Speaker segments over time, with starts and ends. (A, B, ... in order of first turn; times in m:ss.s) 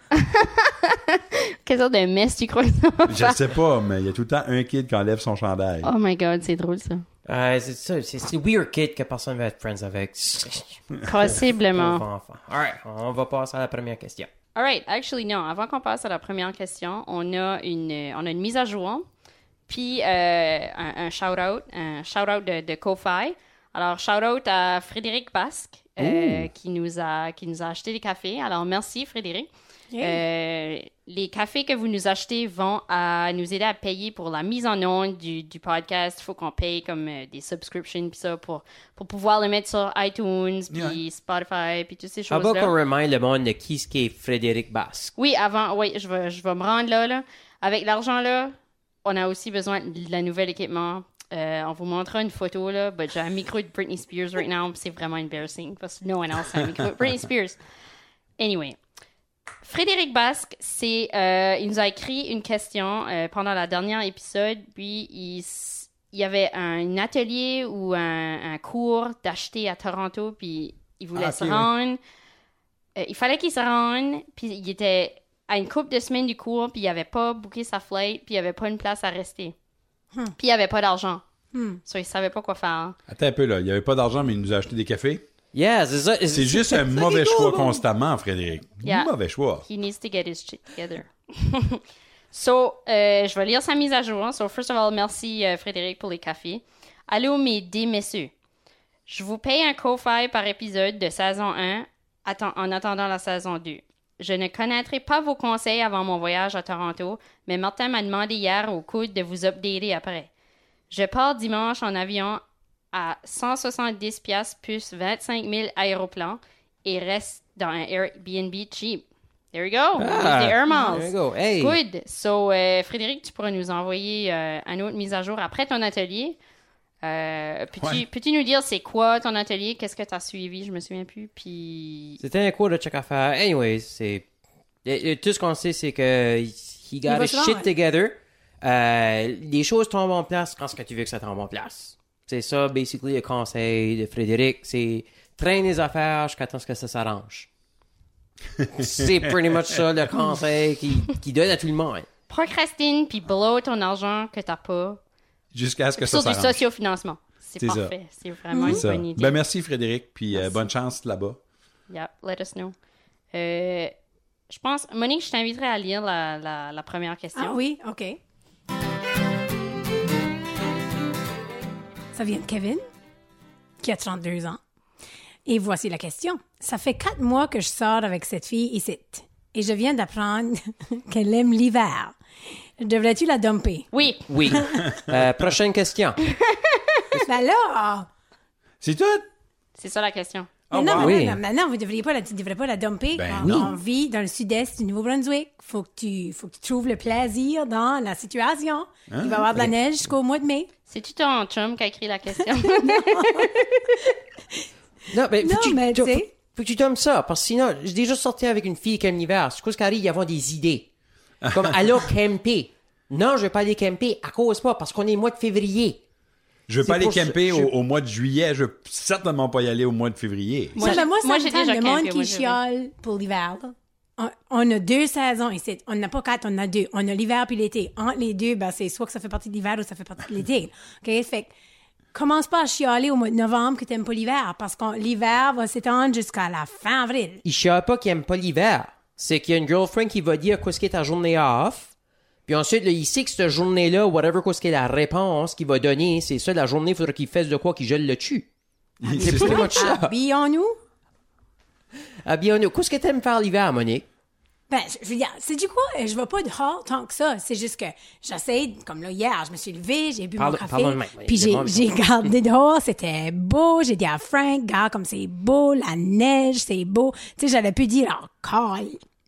0:00.2-0:03.4 A
0:03.1-0:05.9 B
0:05.8-0:07.0 A
0:07.3-0:14.3 C
0:11.0-0:12.0 A
0:14.6-0:19.0 A
0:19.7-0:29.5 A
0:26.0-0:26.5 C
0:29.9-0:30.2 D
0:30.0-0:42.8 A
0:40.7-0:41.0 B
0:42.3-0:45.1 C
0:45.2-0:57.6 A
0:58.4-0:58.8 A
0:59.6-1:12.0 A
1:11.2-1:11.7 B
1:13.0-1:19.6 A
1:20.4-1:21.2 A
1:21.5-1:21.8 D
1:21.9-1:23.0 A
1:23.1-1:25.2 B
1:25.5-1:27.8 C
1:26.3-1:29.6 B
1:28.8-1:29.1 A
1:29.6-1:31.8 A
1:32.3-1:38.3 A
1:39.1-1:50.3 A
1:50.9-1:52.4 A
1:52.9-2:06.4 A
2:00.0-2:01.8 C
2:07.0-2:12.2 A
2:07.8-2:08.0 B
2:12.2-2:14.3 C
2:14.8-2:27.5 C
2:17.1-2:17.7 D
2:28.6-2:29.8 B
2:28.7-2:32.1 C
2:32.3-2:35.0 A
2:35.5-2:36.6 B
2:36.0-2:39.4 A
2:37.6-2:37.9 B
2:38.5-2:38.8 D
2:38.6-2:41.4 B
2:41.9-2:42.7 A
2:43.3-2:43.9 A
2:44.5-2:47.6 A
2:47.4-2:48.2 D
2:52.1-2:52.8 D
2:53.8-2:54.6 D
2:55.5-3:02.2 D
3:02.8-3:03.9 D
3:03.9-3:04.5 A
3:04.3-3:06.2 C
3:04.4-3:04.9 D
3:04.8-3:05.5 B
3:06.3-3:07.0 A
3:07.1-3:08.1 D
3:08.8-3:09.3 B
3:09.8-3:10.6 A
3:10.7-3:11.2 B
3:10.7-3:20.7 D
3:10.9-3:11.4 C
3:13.1-3:13.8 B
3:13.4-3:13.7 C
3:19.1-3:19.7 B
3:20.9-3:24.0 A
3:22.8-3:23.6 D
3:25.1-3:30.9 C
3:25.4-3:26.3 D
3:31.4-3:32.0 B
3:31.5-3:36.0 C
3:36.7-3:41.0 B
3:36.8-3:37.7 C
3:40.8-3:42.6 A
3:40.8-3:51.5 D
3:52.1-3:57.4 D
3:57.4-4:01.9 C
4:02.5-4:08.5 C
4:09.0-4:09.8 B
4:09.1-4:10.8 D
4:09.1-4:10.1 C
4:12.2-4:14.1 C
4:14.7-4:29.0 D
4:20.4-4:22.0 C